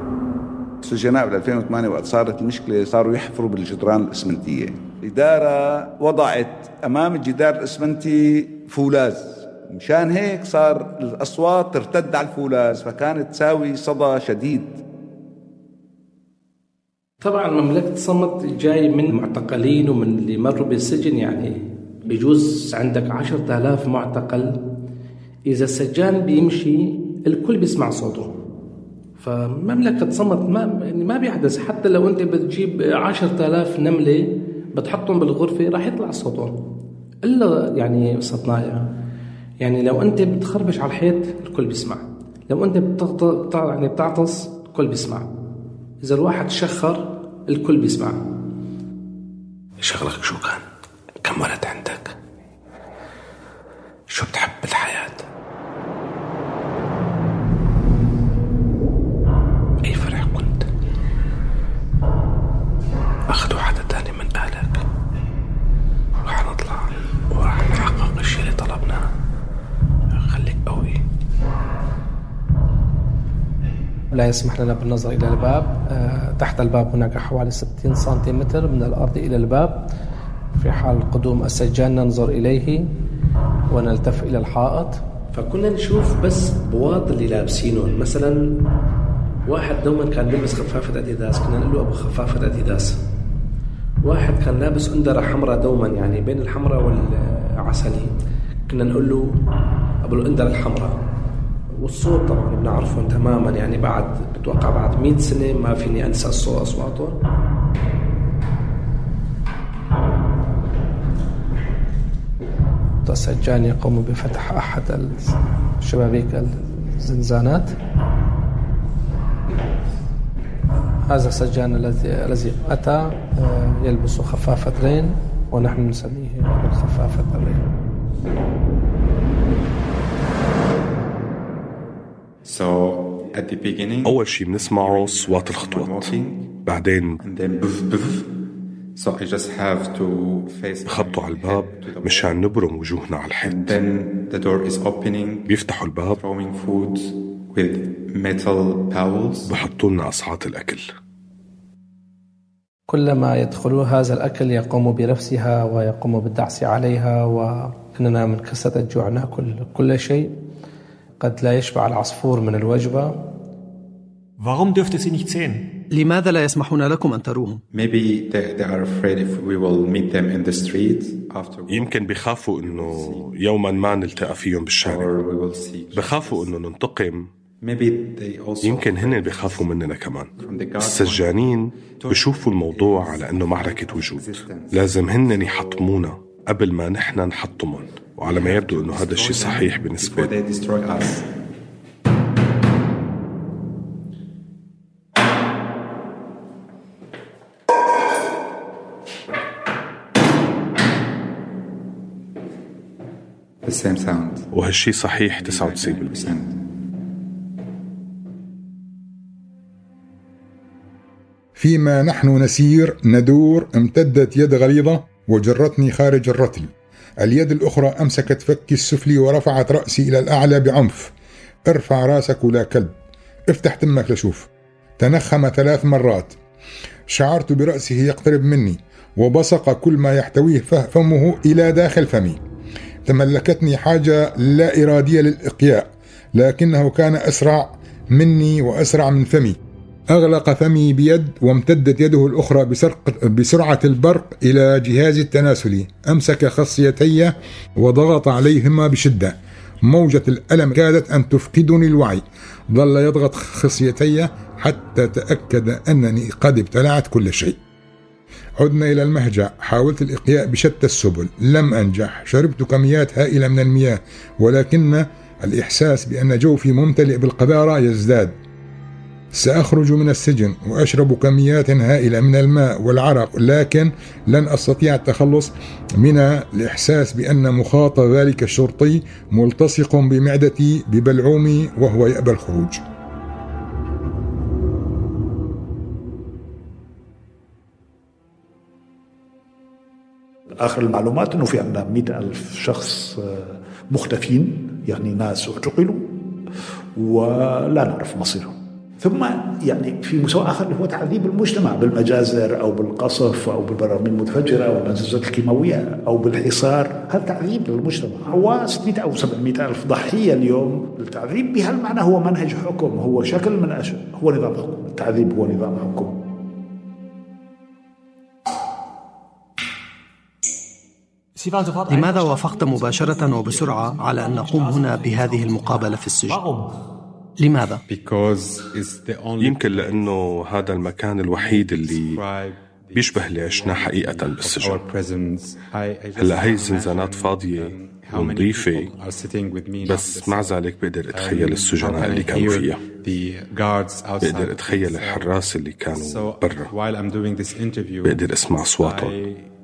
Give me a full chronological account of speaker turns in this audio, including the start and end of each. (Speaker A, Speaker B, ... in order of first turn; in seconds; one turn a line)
Speaker A: 0.8-14.8
Speaker B: 17.2-21.6
Speaker B: 22.1-24.6
Speaker B: 25.5-28.3
Speaker B: 29.2-36.6
Speaker B: 37.2-38.9
Speaker B: 39.6-45.3
Speaker B: 46.0-48.2
Speaker B: 49.8-50.6
Speaker B: 51.2-52.1
Speaker B: 54.1-55.2
Speaker B: 59.8-60.7
Speaker B: 63.3-64.8
Speaker B: 66.2-69.0
Speaker B: 70.1-71.0
Speaker B: 74.1-79.8
Speaker B: 80.6-82.8
Speaker B: 83.7-88.4
Speaker B: 89.5-93.0
Speaker B: 94.0-98.1
Speaker B: 98.7-99.2
Speaker B: 100.0-101.0
Speaker B: 101.8-107.2
Speaker B: 113.1-117.7
Speaker B: 121.1-127.7
Speaker C: 132.4-136.5
Speaker D: 134.1-137.2
Speaker C: 137.2-138.3
Speaker C: 138.9-142.4
Speaker D: 140.9-143.8
Speaker C: 143.4-145.5
Speaker D: 145.5-146.2
Speaker C: 146.2-149.5
Speaker D: 149.5-150.8
Speaker B: 152.9-160.3
Speaker B: 161.2-163.1
Speaker E: 164.4-165.6
Speaker F: 165.9-167.6
Speaker C: 167.7-176.5
Speaker D: 171.7-175.1
Speaker D: 175.9-177.3
Speaker C: 177.6-179.7
Speaker D: 178.6-190.3
Speaker C: 180.4-185.5
Speaker C: 188.2-191.3
Speaker C: 203.6-204.5
Speaker D: 204.5-206.3
Speaker C: 205.1-206.5
Speaker G: 211.6-216.7
Speaker G: 217.2-221.1
Speaker G: 221.7-222.9
Speaker G: 223.5-226.3
Speaker G: 227.1-232.4
Speaker G: 233.1-239.6
Speaker G: 240.1-249.3
Speaker G: 249.9-257.6
Speaker G: 258.6-268.4
Speaker G: 269.4-282.8
Speaker H: 290.6-296.1
Speaker H: 297.0-316.1
Speaker E: 321.4-326.7
Speaker F: 321.9-326.4
Speaker F: 327.4-327.8
Speaker C: 327.9-345.4
Speaker D: 329.4-332.2
Speaker D: 332.9-334.8
Speaker D: 336.2-338.9
Speaker D: 339.9-342.8
Speaker D: 344.2-346.7
Speaker C: 345.9-348.2
Speaker D: 348.0-349.2
Speaker C: 348.8-349.5